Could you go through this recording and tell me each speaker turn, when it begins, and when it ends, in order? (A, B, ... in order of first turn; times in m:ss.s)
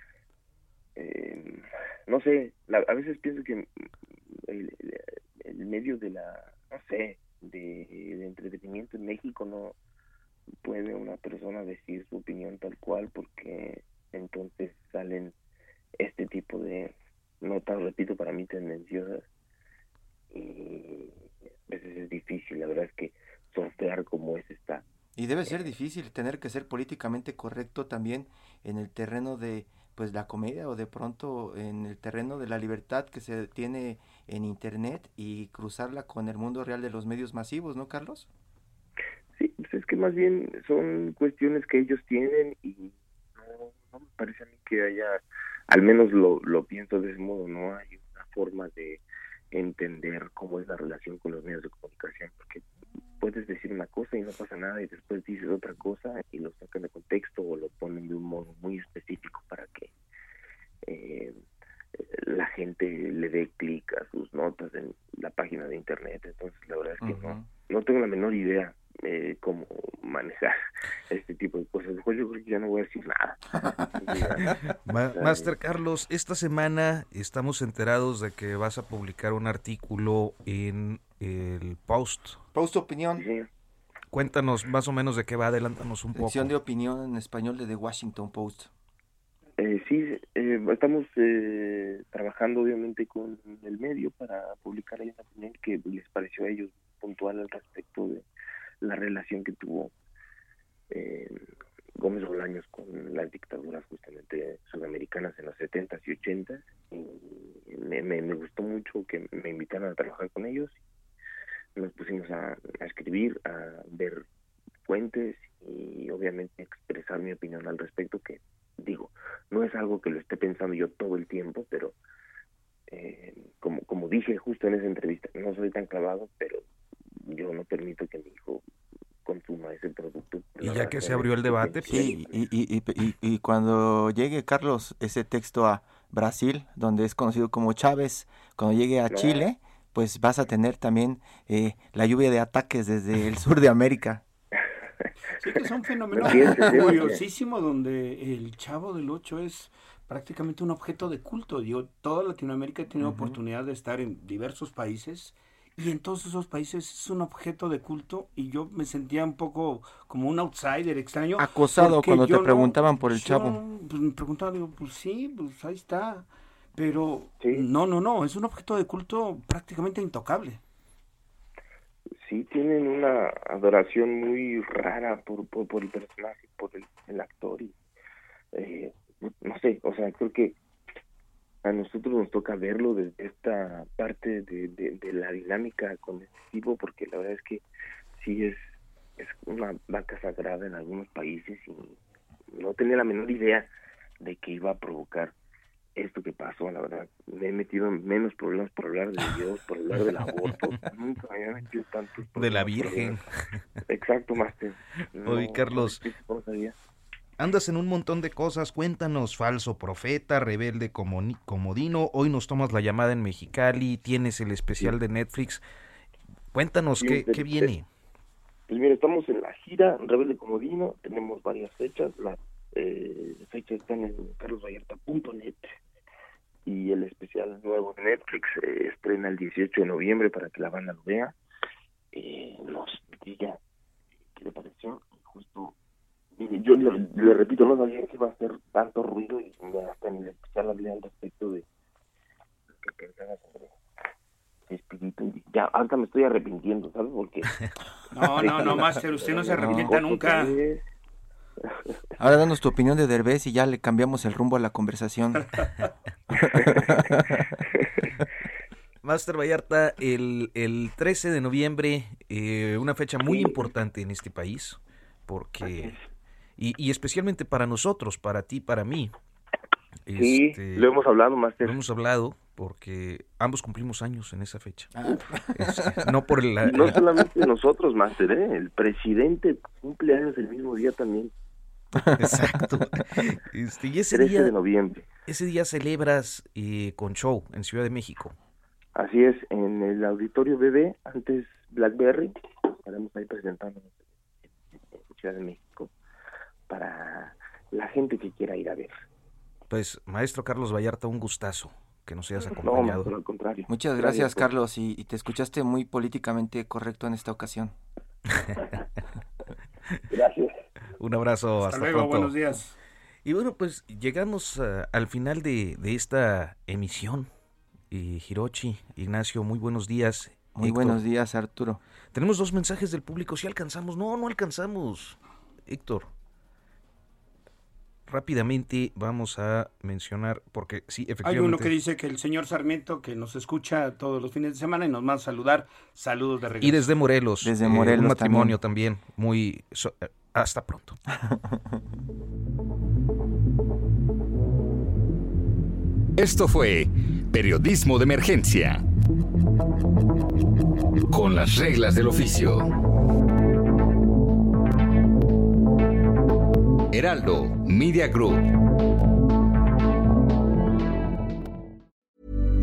0:01.0-0:03.7 A
0:04.3-0:09.8 A
0:10.6-0:15.3 A
0:16.0-0:19.3 A
0:20.3-0:24.8 A
0:25.2-0:38.3 B
0:39.4-0:52.6 A
0:53.2-0:59.9 A
1:00.8-1:01.4 A
1:02.0-1:10.6 A
1:07.0-1:07.5 B
1:11.1-1:13.4 A
1:14.0-1:15.5 A
1:14.9-1:22.4 C
1:22.5-1:23.2 B
1:23.2-1:23.5 A
1:24.1-1:26.5 C
1:26.1-1:28.7 B
1:29.6-1:38.3 A
1:38.8-1:39.9 A
1:40.9-1:41.4 A
1:42.0-1:50.8 A
1:51.8-1:54.2 A
1:54.8-2:02.0 A
2:02.9-2:06.6 A
2:07.2-2:08.6 A
2:09.2-2:12.3 A
2:10.6-2:12.1 C
2:11.9-2:24.2 B
2:19.1-2:19.4 A
2:25.4-2:50.6 D
2:26.1-2:27.2 A
2:33.0-2:33.4 B
2:41.4-2:43.6 B
2:47.4-2:47.7 A
2:52.2-2:57.8 A
2:58.5-3:00.6 A
3:01.6-3:07.6 A
3:08.2-3:12.0 A
3:12.5-3:15.3 A
3:16.0-3:23.2 A
3:22.4-3:23.2 C
3:23.9-3:26.8 A
3:25.2-3:26.0 C
3:27.4-3:35.6 C
3:36.5-3:37.9 C
3:37.0-3:37.7 A
3:38.7-3:45.8 A
3:46.7-3:51.3 A
3:52.1-3:53.6 A
3:54.4-3:55.7 A
3:56.4-4:01.6 A
4:02.7-4:03.8 A
4:04.7-4:07.6 A
4:08.1-4:10.6 D
4:08.3-4:10.8 A
4:08.5-4:08.8 B
4:09.6-4:09.9 B
4:12.2-4:15.4 B
4:16.6-4:17.6 B
4:19.0-4:26.0 C
4:23.2-4:23.6 A
4:25.6-4:26.0 A
4:26.6-4:29.1 C
4:30.1-4:30.9 C
4:30.1-4:31.8 A
4:31.6-4:37.0 C
4:35.0-4:36.0 B
4:36.6-4:41.3 A
4:42.0-4:42.8 B
4:42.1-4:44.5 C
4:44.1-4:45.1 A
4:45.3-4:48.4 C
4:49.0-4:53.9 A
4:54.9-4:55.9 A
4:56.7-4:58.9 A
4:59.7-5:03.1 C
5:02.5-5:04.5 A
5:03.7-5:07.7 B
5:10.1-5:10.6 A
5:11.0-5:12.3 C
5:11.6-5:12.8 D
5:13.2-5:17.3 C
5:17.9-5:21.0 C
5:20.6-5:21.8 B
5:22.1-5:26.1 C
5:28.1-5:31.7 C
5:31.2-5:36.9 D
5:36.6-5:41.0 C
5:37.4-5:38.6 B
5:41.2-5:41.8 B
5:46.2-5:48.8 E
5:51.1-5:52.7 E
5:56.9-5:58.4 E